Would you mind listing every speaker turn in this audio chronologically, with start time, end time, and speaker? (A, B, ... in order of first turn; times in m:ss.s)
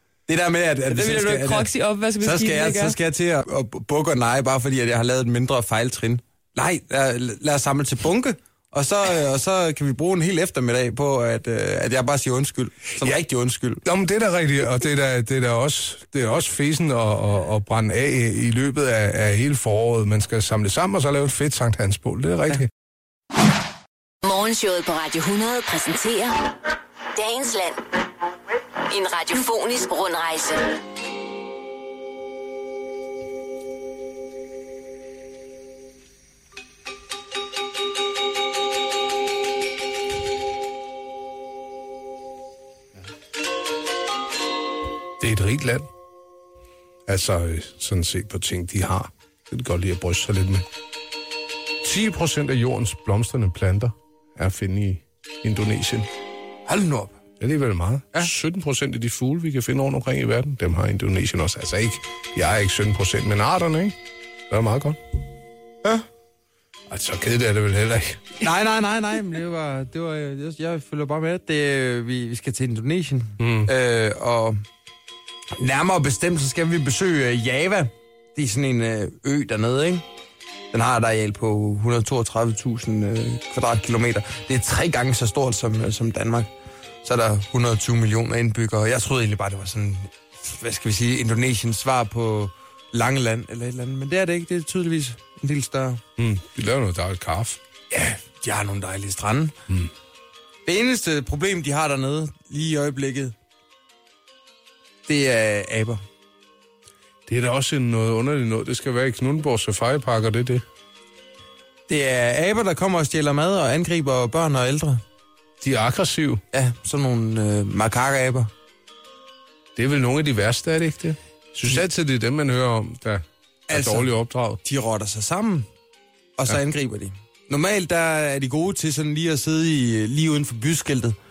0:00.3-0:01.7 A
0:00.9-0:03.0 B
0:02.2-0:13.8 A
0:13.8-0:22.7 C
0:24.2-0:26.5 D
0:27.1-0:27.8 D
0:28.9-0:30.8 D
0:45.2-0:45.9 C
0:47.1-0:50.7 C
0:51.8-0:56.1 C
0:56.7-0:57.2 A
0:57.4-1:04.0 C
1:04.5-1:05.0 C
1:06.9-1:08.2 C
1:08.4-1:14.6 A
1:13.4-1:13.7 C
1:15.5-1:20.0 A
1:20.7-1:26.5 A
1:27.0-1:36.0 A
1:36.2-1:37.6 C
1:37.9-1:39.6 A
1:40.7-1:43.4 A
1:45.1-1:46.0 A
1:47.3-1:50.6 C
1:51.9-1:55.0 A
1:55.6-1:56.4 C
1:56.5-1:58.5 A
1:59.8-2:04.6 C
2:03.7-2:04.1 A
2:04.6-2:05.7 A
2:06.4-2:11.2 A